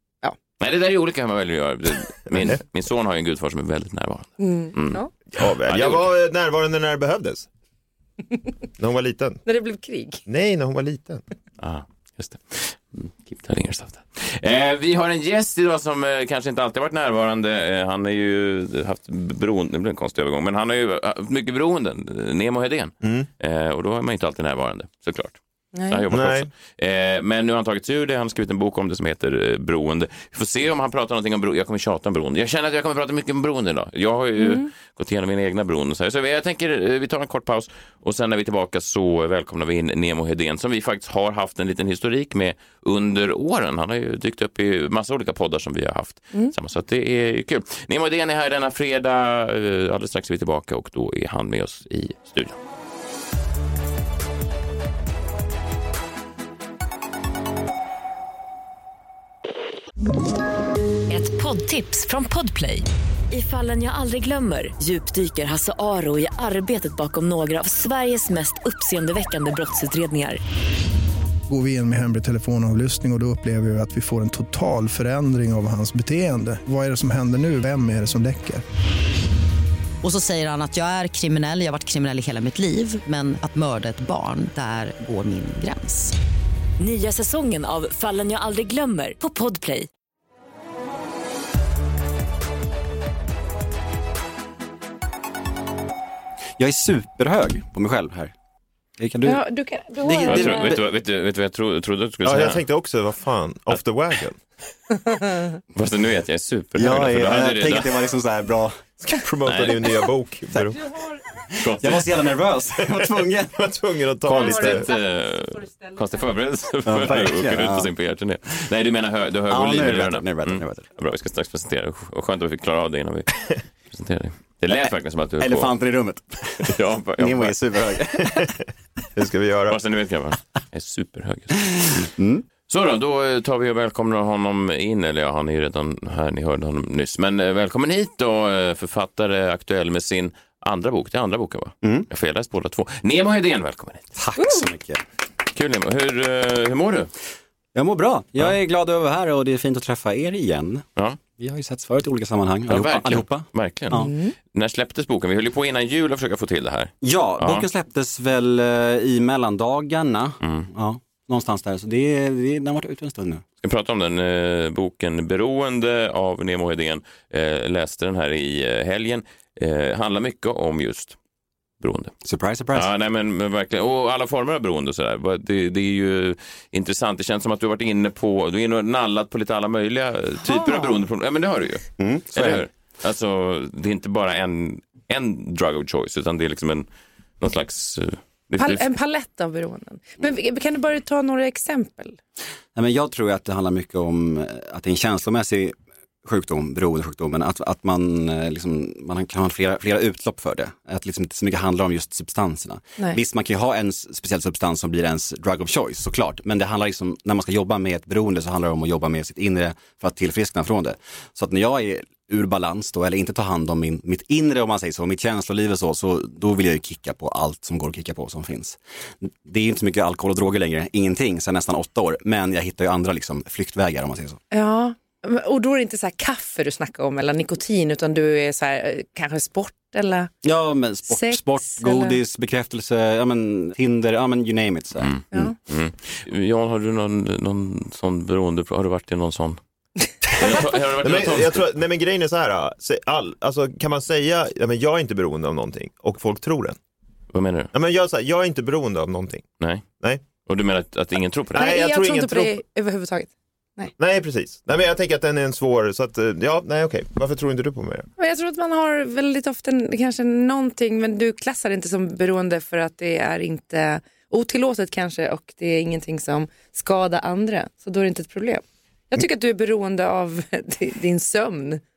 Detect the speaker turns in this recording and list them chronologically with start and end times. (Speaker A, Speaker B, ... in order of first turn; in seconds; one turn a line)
Speaker A: 0.6-6.1
Speaker B: 4.4-5.1
Speaker C: 5.3-7.5
Speaker C: 8.8-9.4
Speaker B: 9.4-10.2
Speaker C: 10.3-11.2
Speaker A: 11.6-25.4
Speaker C: 23.0-23.3
Speaker B: 25.7-26.0
Speaker A: 25.9-52.6
Speaker C: 26.1-26.5
Speaker B: 34.4-34.7
Speaker D: 61.1-70.4
Speaker E: 71.5-78.6
Speaker F: 80.0-86.1
Speaker D: 86.8-89.9
Speaker G: 96.6-98.3
Speaker G: 99.0-99.4
Speaker B: 99.2-100.8
Speaker G: 100.0-100.9
Speaker A: 100.3-102.6
Speaker C: 102.2-104.4
Speaker A: 105.7-108.1
Speaker G: 106.8-108.8
Speaker C: 109.0-110.8
Speaker A: 109.5-109.9
Speaker A: 111.5-112.2
Speaker G: 111.7-113.5
Speaker C: 112.9-114.9
Speaker A: 114.2-125.7
Speaker G: 116.8-117.9
Speaker G: 119.5-120.8
Speaker G: 125.4-128.6
Speaker A: 126.6-127.5
Speaker C: 129.2-129.8
Speaker A: 129.7-132.1
Speaker G: 132.2-132.4
Speaker A: 132.7-144.1
Speaker G: 144.2-145.0
Speaker B: 144.4-144.7
Speaker A: 145.5-147.1
Speaker G: 147.7-150.8
Speaker G: 151.3-154.1
Speaker A: 152.7-157.7
Speaker B: 153.9-154.3
Speaker G: 157.0-163.4
Speaker A: 160.4-160.7
Speaker A: 163.6-171.2
Speaker A: 171.8-172.1
Speaker G: 172.2-172.9
Speaker A: 172.7-186.8
Speaker B: 180.4-181.0
Speaker G: 182.0-182.6
Speaker A: 187.4-188.8
Speaker B: 188.6-192.2
Speaker G: 192.7-224.4
Speaker B: 224.5-230.3
Speaker G: 230.4-235.5
Speaker B: 231.1-232.2
Speaker A: 235.0-239.6
Speaker A: 240.3-241.7
Speaker C: 240.4-246.8
Speaker A: 247.3-247.7
Speaker C: 247.7-249.4
Speaker A: 250.4-251.7
Speaker C: 251.5-252.6
Speaker B: 251.6-253.9
Speaker C: 254.0-258.1
Speaker B: 258.2-271.8